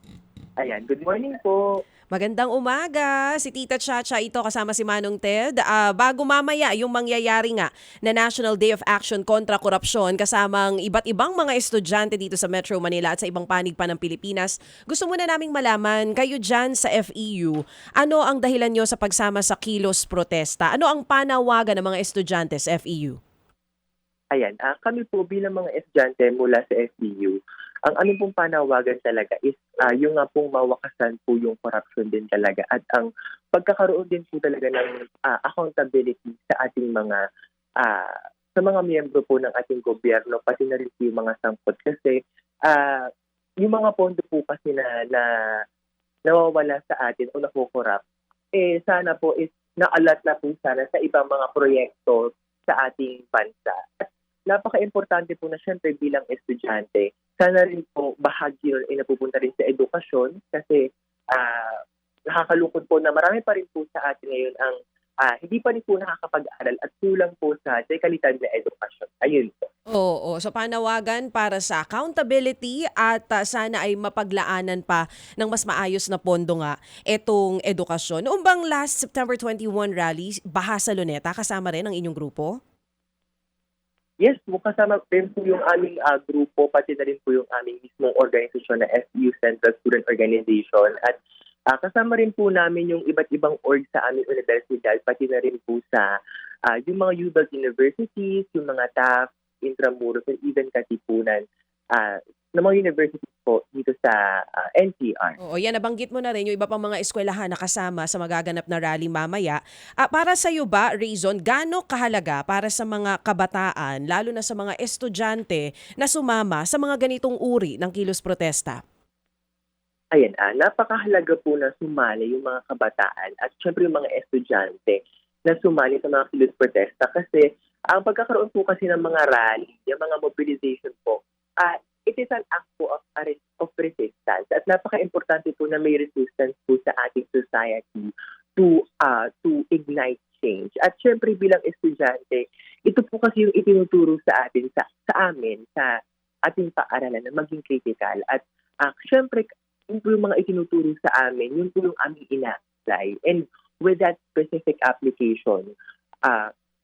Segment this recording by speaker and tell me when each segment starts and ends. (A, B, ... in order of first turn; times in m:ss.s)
0:00.6-0:01.6 A
0:02.1-0:23.2 B
0:24.3-0:37.2 A
0:37.8-0:43.1 A
0:43.6-0:45.3 A
0:46.3-0:48.0 A
0:48.5-1:00.8 A
1:01.4-1:01.8 A
1:02.3-1:09.7 A
1:09.9-1:22.6 B
1:24.2-1:31.2 A
1:31.7-1:36.1 A
1:36.7-1:41.4 A
1:42.0-1:45.4 A
1:45.4-1:58.8 B
2:00.2-2:35.7 A
2:36.3-2:36.5 A